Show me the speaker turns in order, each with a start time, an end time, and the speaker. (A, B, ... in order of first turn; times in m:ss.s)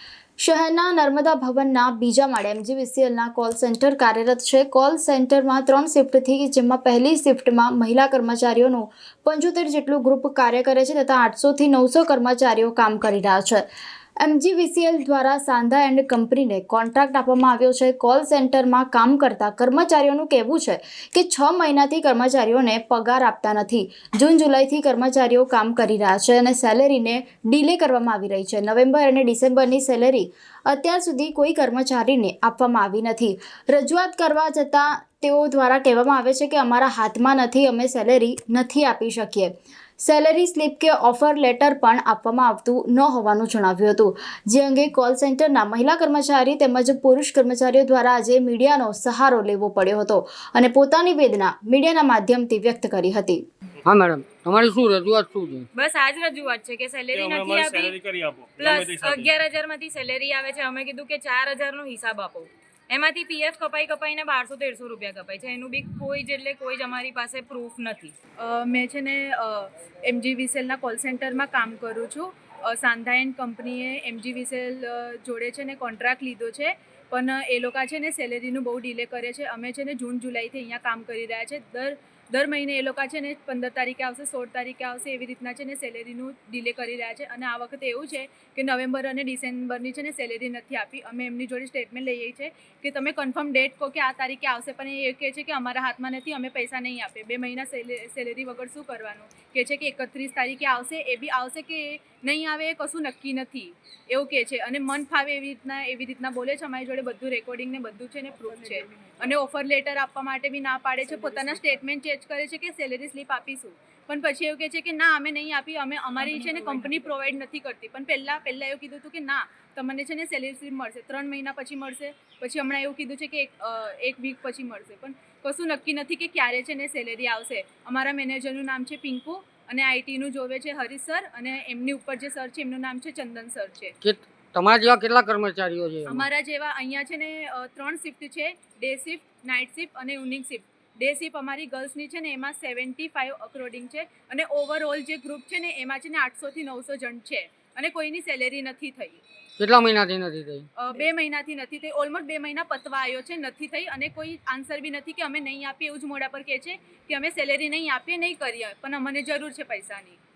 0:00.4-0:13.6 A
0:14.2-0:53.4 A
0:53.8-0:55.7 B
0:55.7-0:58.0 C
0:57.1-0:59.3 D
0:58.6-1:08.1 C
1:08.4-2:13.9 E
1:56.2-1:57.0 C
2:14.0-2:16.3 B
2:16.1-2:29.2 E
2:29.6-2:30.7 B
2:30.8-2:40.2 E